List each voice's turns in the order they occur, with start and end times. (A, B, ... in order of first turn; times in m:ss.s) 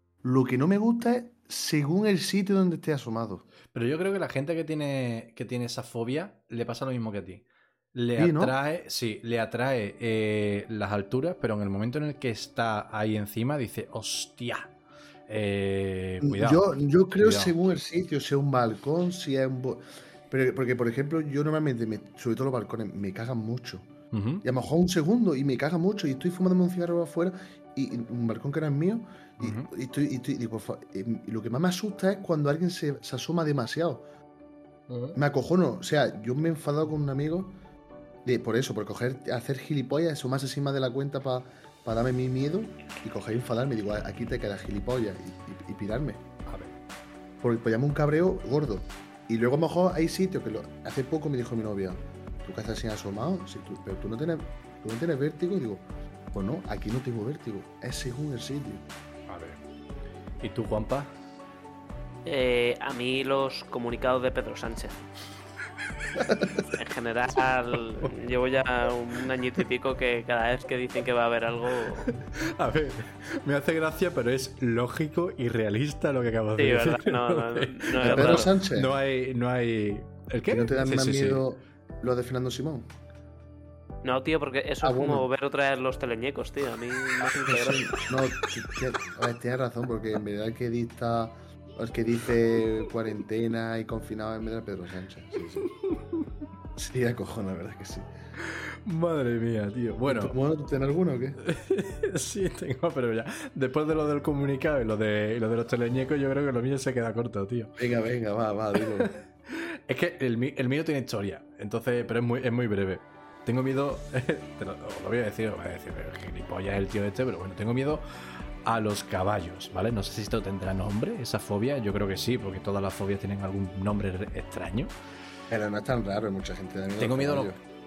0:00.2-0:03.4 A
0:03.7-0:07.4 B
0:07.9-0:14.7 B
0:08.1-0:08.6 A
0:15.3-0:17.6 B
0:16.2-0:23.9 A
0:24.1-0:24.4 B
0:24.4-0:34.0 A
0:29.4-0:29.7 B
0:35.1-0:37.5 A
0:38.2-0:46.2 A
0:46.5-0:46.7 B
0:47.4-0:58.8 A
0:59.3-0:59.6 B
1:00.4-1:01.1 B
1:02.2-1:05.0 C
1:06.2-1:06.6 A
1:06.7-1:12.0 C
1:12.0-1:21.5 B
1:16.6-1:18.5 C
1:18.0-1:18.9 A
1:20.5-1:22.9 A
1:24.0-1:27.9 C
1:24.8-1:25.2 A
1:27.4-1:35.7 A
1:36.8-1:38.1 A
1:38.4-1:40.4 B
1:40.0-1:41.4 A
1:41.4-1:47.7 B
1:47.8-1:49.1 A
1:48.8-1:58.0 B
1:58.6-2:04.9 B
2:05.5-2:07.6 A
2:07.0-2:07.5 B